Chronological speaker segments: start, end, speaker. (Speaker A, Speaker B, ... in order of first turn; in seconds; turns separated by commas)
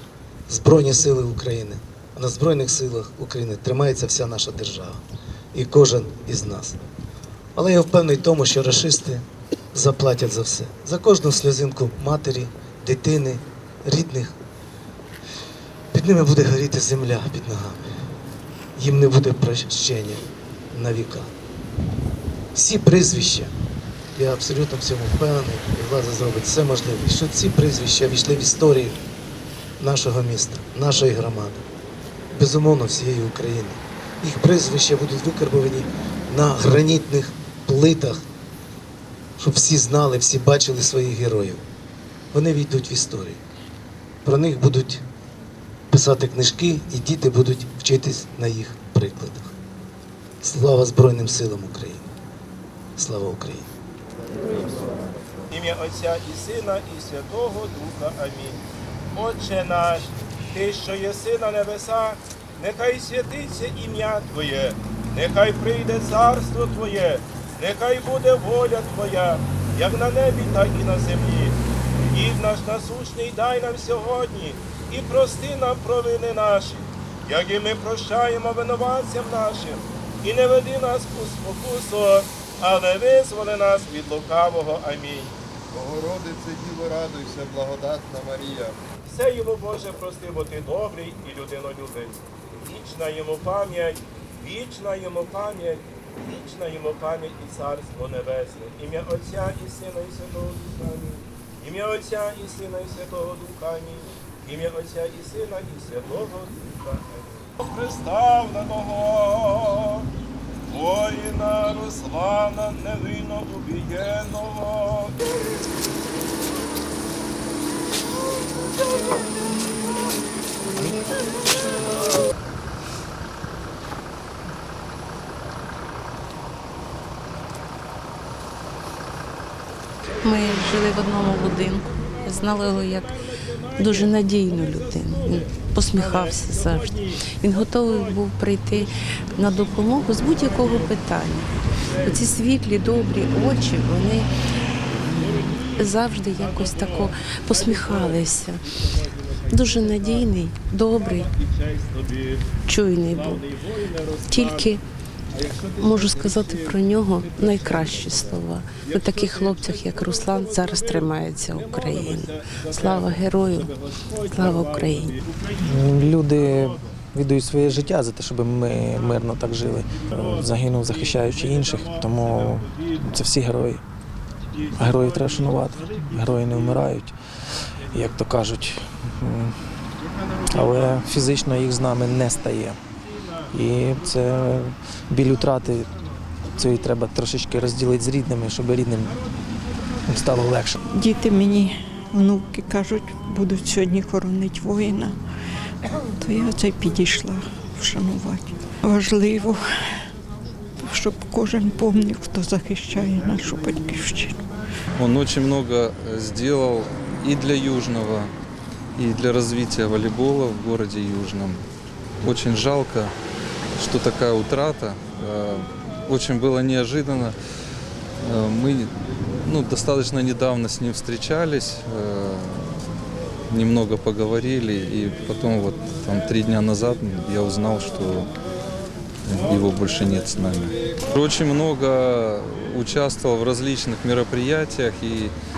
Speaker A: 0.5-5.0, Speaker A: 5.5-6.8, Speaker A: 7.5-14.3, Speaker A: 15.9-17.9, Speaker A: 18.8-21.3, Speaker A: 22.5-23.5, Speaker A: 24.1-29.0, Speaker A: 29.8-31.6, Speaker A: 32.3-38.2, Speaker A: 39.4-41.6, Speaker A: 42.3-43.4, Speaker A: 44.2-45.0, Speaker A: 45.9-49.5, Speaker A: 50.4-52.1, Speaker A: 53.0-53.7, Speaker B: 55.5-58.6, Speaker B: 59.1-71.6, Speaker B: 72.1-85.3, Speaker C: 85.7-88.8, Speaker B: 89.0-110.1, Speaker B: 110.7-115.2, Speaker D: 130.2-133.1, Speaker B: 130.4-130.7, Speaker B: 132.0-142.3, Speaker D: 133.8-138.8, Speaker D: 139.3-141.4, Speaker D: 142.0-144.3, Speaker B: 142.9-143.7, Speaker B: 145.2-150.3, Speaker D: 145.8-148.6, Speaker D: 149.5-151.2, Speaker B: 150.9-154.7, Speaker D: 152.7-153.4, Speaker D: 154.3-154.8, Speaker B: 155.3-166.7, Speaker D: 155.8-163.7, Speaker D: 164.3-165.2, Speaker E: 165.6-173.8, Speaker B: 171.3-171.9, Speaker E: 174.7-177.1, Speaker E: 177.9-179.5, Speaker E: 180.5-182.8, Speaker E: 183.5-185.9, Speaker E: 186.5-189.2, Speaker E: 190.1-190.9, Speaker F: 190.9-195.2, Speaker F: 195.8-199.6, Speaker F: 200.8-204.4, Speaker G: 204.9-208.3, Speaker G: 209.0-211.6, Speaker G: 212.2-213.1, Speaker G: 213.8-217.3, Speaker G: 218.2-218.9, Speaker G: 219.4-222.8, Speaker G: 223.5-228.3, Speaker G: 229.2-235.3